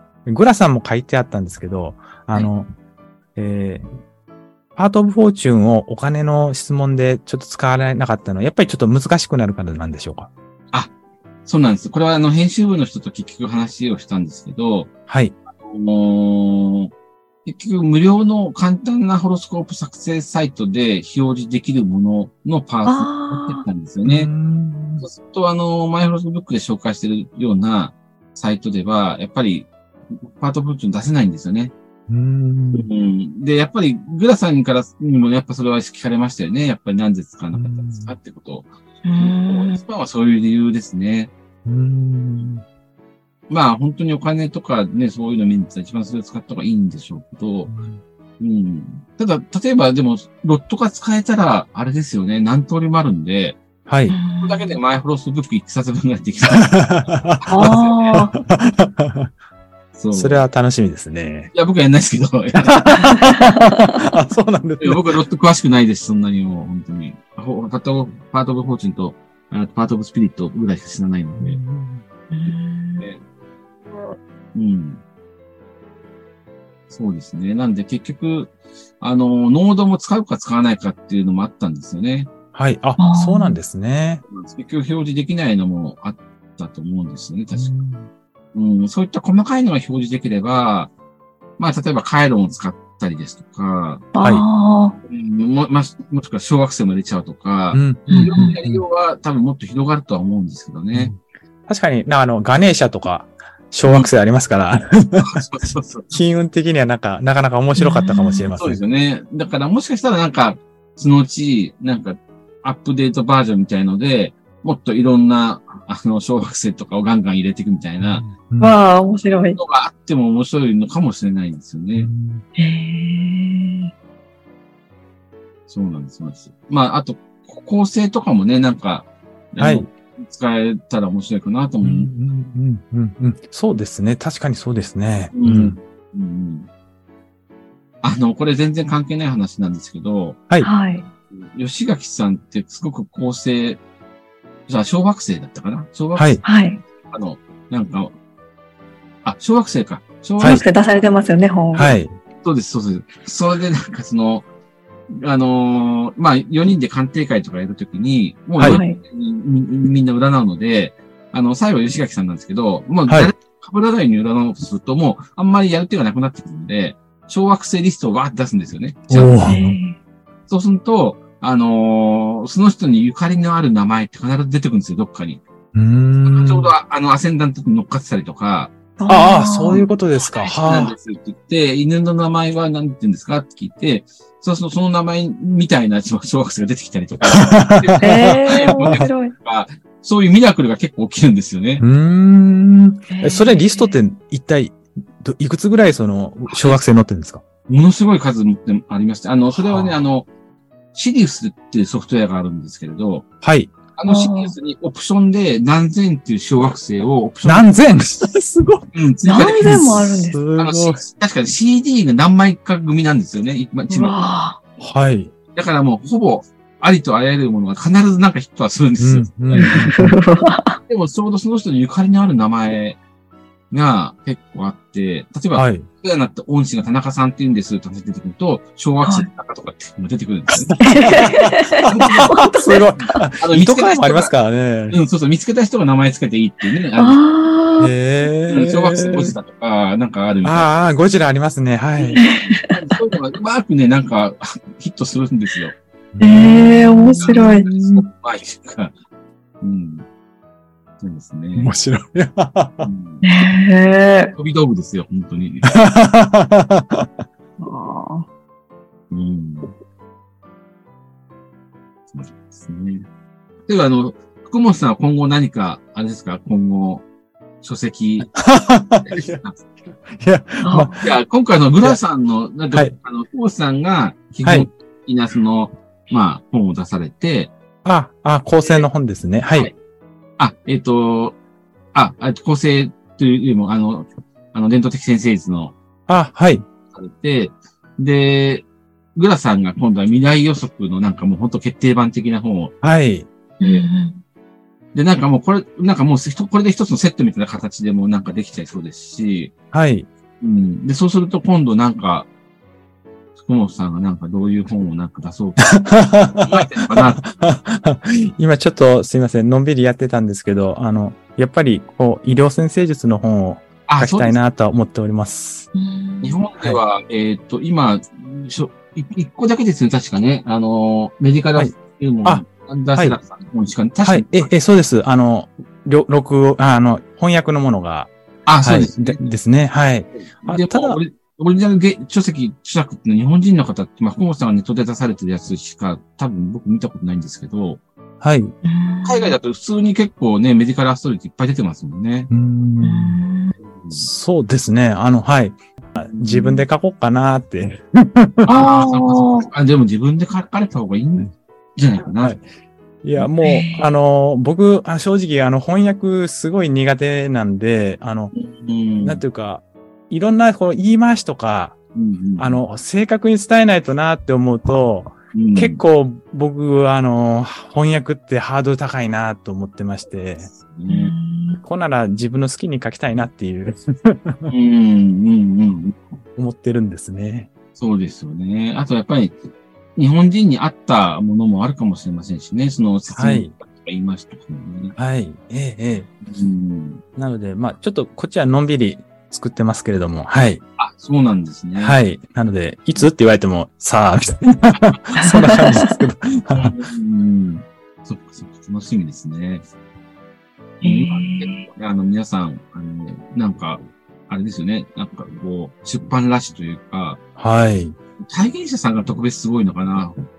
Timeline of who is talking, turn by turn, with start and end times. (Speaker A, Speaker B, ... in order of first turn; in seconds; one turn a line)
Speaker A: 0.3-2.7
Speaker A: 3.4-3.9
Speaker A: 4.8-10.3
Speaker B: 11.4-14.9
Speaker A: 15.1-15.4
Speaker B: 15.6-16.9
Speaker B: 17.4-24.3
Speaker C: 22.9-23.6
Speaker A: 24.1-25.0
Speaker B: 25.0-31.7
Speaker A: 32.1-32.9
Speaker B: 32.7-41.3
Speaker A: 37.5-38.1
Speaker C: 39.0-39.8
Speaker A: 41.7-42.6
Speaker B: 43.5-47.7
Speaker A: 47.7-48.0
Speaker B: 48.4-53.6
Speaker A: 53.9-54.1
Speaker C: 54.1-54.8
Speaker B: 54.4-56.8
Speaker A: 56.7-57.7
Speaker B: 57.4-58.1
Speaker C: 57.5-58.3
Speaker A: 58.4-59.3
Speaker B: 59.9-60.5
Speaker A: 60.1-61.5
Speaker B: 61.5-63.1
Speaker A: 62.7-65.0
Speaker C: 63.0-63.7
Speaker B: 64.8-71.6
Speaker A: 71.3-72.0
Speaker C: 72.3-73.0
Speaker B: 74.5-75.0
Speaker B: 76.9-82.3
Speaker A: 82.5-84.2
Speaker C: 83.0-83.6
Speaker B: 84.2-87.7
Speaker A: 87.5-88.1
Speaker B: 88.5-90.9
Speaker B: 91.6-94.0
Speaker C: 94.1-95.0
Speaker B: 95.0-101.1
Speaker A: 97.7-98.8
Speaker C: 98.1-98.6
Speaker A: 100.9-105.3
Speaker B: 103.8-104.1
Speaker B: 105.2-106.2
Speaker A: 106.1-108.8
Speaker C: 107.8-108.5
Speaker B: 108.5-118.2
Speaker A: 118.0-118.8
Speaker C: 118.6-119.6
Speaker B: 119.6-122.1
Speaker A: 122.0-122.5
Speaker C: 122.6-123.9
Speaker B: 125.7-132.1
Speaker A: 129.6-129.9
Speaker A: 131.8-135.8
Speaker B: 135.3-136.7
Speaker B: 138.0-140.4
Speaker C: 140.6-141.1
Speaker B: 141.4-143.8
Speaker B: 144.7-146.4
Speaker A: 146.2-146.4
Speaker C: 146.4-146.8
Speaker B: 147.1-148.1
Speaker B: 149.2-150.7
Speaker A: 150.4-150.6
Speaker C: 150.4-151.9
Speaker B: 151.7-154.5
Speaker A: 151.8-152.2
Speaker B: 155.1-169.5
Speaker C: 158.6-159.0
Speaker A: 163.1-163.3
Speaker A: 169.1-169.8
Speaker C: 169.2-170.0
Speaker B: 170.5-175.4
Speaker A: 175.7-176.7
Speaker B: 176.2-178.7
Speaker C: 179.0-179.9
Speaker A: 179.1-180.9
Speaker B: 179.7-191.8
Speaker A: 187.5-189.1
Speaker C: 188.0-189.3
Speaker A: 191.8-197.4
Speaker C: 193.1-194.0
Speaker B: 196.5-196.8
Speaker B: 197.7-200.3
Speaker A: 199.5-200.0
Speaker B: 200.9-203.3
Speaker A: 203.4-203.8
Speaker B: 204.0-207.7
Speaker C: 204.1-204.5
Speaker A: 207.4-208.9
Speaker B: 208.9-214.2
Speaker C: 209.2-210.4
Speaker A: 209.6-211.0
Speaker C: 213.9-214.6
Speaker A: 214.8-215.3
Speaker B: 215.5-219.9
Speaker A: 219.0-220.2
Speaker C: 219.6-220.8
Speaker B: 220.9-223.0
Speaker B: 223.7-231.3
Speaker A: 225.5-225.9
Speaker C: 229.0-229.3
Speaker A: 230.6-235.0
Speaker C: 230.8-233.2
Speaker B: 231.8-232.4
Speaker B: 233.4-234.3
Speaker B: 234.9-237.2
Speaker C: 237.0-237.9
Speaker A: 237.8-239.3
Speaker B: 238.5-240.8
Speaker A: 240.4-242.2
Speaker B: 242.0-245.8
Speaker C: 242.2-243.0
Speaker A: 246.1-248.1
Speaker C: 246.2-247.7
Speaker B: 247.2-248.9
Speaker B: 249.6-250.1
Speaker B: 251.0-251.7
Speaker A: 251.6-252.9
Speaker B: 252.8-253.3
Speaker C: 253.2-254.3
Speaker B: 254.3-255.8
Speaker A: 255.7-257.1
Speaker C: 257.6-258.3
Speaker B: 259.1-259.8
Speaker B: 262.1-263.1
Speaker B: 263.7-267.1
Speaker B: 267.6-268.3
Speaker A: 268.4-269.4
Speaker B: 269.0-269.6
Speaker A: 270.1-271.1
Speaker C: 270.6-270.9
Speaker B: 271.0-277.5
Speaker A: 277.9-279.7
Speaker B: 278.6-278.9
Speaker B: 280.4-281.4
Speaker B: 281.9-285.8
Speaker A: 286.1-286.7
Speaker B: 286.9-292.7
Speaker A: 292.8-293.3
Speaker B: 293.6-293.9
Speaker C: 293.6-294.2
Speaker B: 294.9-299.5
Speaker A: 299.7-300.1
Speaker B: 300.4-302.3
Speaker B: 303.4-305.7
Speaker A: 305.7-315.7
Speaker B: 306.4-307.2
Speaker B: 313.9-314.4
Speaker C: 315.7-316.4
Speaker B: 316.2-324.5
Speaker A: 322.2-323.2
Speaker A: 324.0-331.0
Speaker B: 328.5-329.3
Speaker B: 330.4-337.8
Speaker A: 338.2-338.5
Speaker C: 338.6-339.3
Speaker B: 339.1-342.3
Speaker A: 342.3-343.2
Speaker C: 342.8-343.5
Speaker B: 343.8-344.1
Speaker A: 343.9-348.5
Speaker B: 346.1-346.7
Speaker B: 348.4-352.4
Speaker C: 348.5-349.5
Speaker A: 353.0-358.3
Speaker C: 353.4-353.9
Speaker B: 358.3-359.2
Speaker A: 359.0-361.8
Speaker B: 361.9-362.6
Speaker A: 362.4-370.5
Speaker B: 365.3-365.8
Speaker B: 370.5-371.1
Speaker C: 370.9-371.6
Speaker A: 371.6-374.5
Speaker B: 374.5-376.0
Speaker A: 376.4-377.5
Speaker B: 377.8-379.4
Speaker B: 380.0-384.9
Speaker A: 383.1-383.5
Speaker A: 385.0-386.1
Speaker B: 386.2-387.0
Speaker A: 387.2-390.6
Speaker B: 390.8-392.0
Speaker A: 391.8-396.7
Speaker C: 395.2-396.0
Speaker B: 396.6-399.6
Speaker C: 400.8-401.7
Speaker B: 400.8-407.2
Speaker A: 407.4-408.0
Speaker B: 408.2-410.2